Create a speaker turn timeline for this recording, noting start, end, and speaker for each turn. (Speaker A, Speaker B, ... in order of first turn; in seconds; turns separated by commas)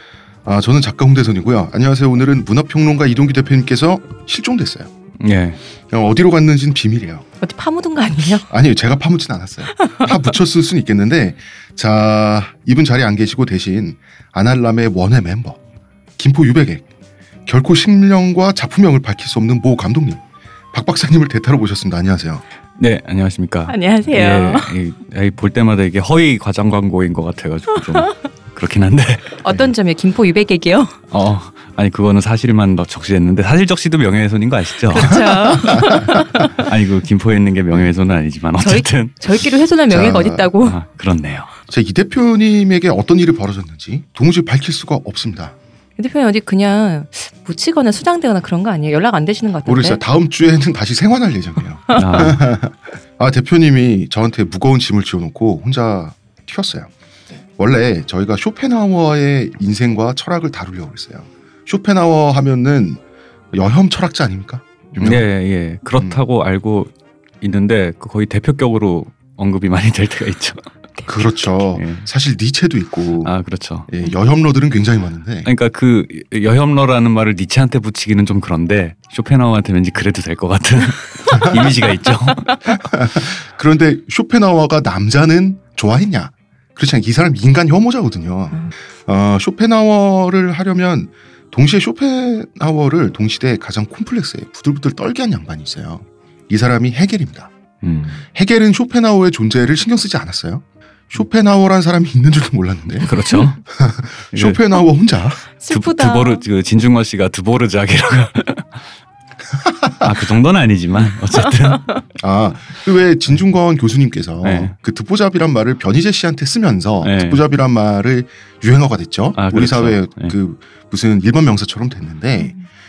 Speaker A: 0.5-4.9, Speaker B: 5.2-5.6, Speaker A: 5.9-7.2, Speaker C: 7.4-8.5, Speaker A: 8.5-15.6, Speaker A: 16.2-16.8, Speaker A: 17.5-22.4, Speaker B: 22.8-29.7, Speaker C: 23.7-24.7, Speaker C: 29.4-31.0, Speaker B: 31.1-35.5, Speaker C: 34.9-36.7, Speaker A: 35.0-36.2, Speaker B: 36.4-39.2, Speaker C: 38.6-40.8, Speaker A: 39.9-40.5, Speaker B: 40.6-41.5, Speaker A: 41.7-45.5, Speaker C: 46.0-50.0, Speaker A: 49.6-56.9, Speaker C: 51.9-52.3, Speaker B: 51.9-52.4, Speaker A: 57.6-63.0, Speaker A: 63.5-65.2, Speaker B: 65.0-70.7, Speaker A: 71.1-73.3, Speaker B: 71.7-72.1, Speaker B: 73.2-73.9, Speaker A: 73.9-75.5, Speaker B: 75.5-82.7, Speaker A: 82.7-97.5, Speaker B: 97.8-98.2, Speaker A: 98.3-103.1, Speaker B: 103.0-103.6, Speaker A: 103.7-105.4, Speaker B: 104.3-104.6, Speaker C: 105.6-106.5, Speaker B: 105.7-108.8, Speaker A: 109.7-110.0, Speaker B: 110.0-111.9, Speaker A: 112.2-122.5, Speaker B: 114.4-114.7, Speaker B: 117.0-117.4, Speaker B: 119.3-120.3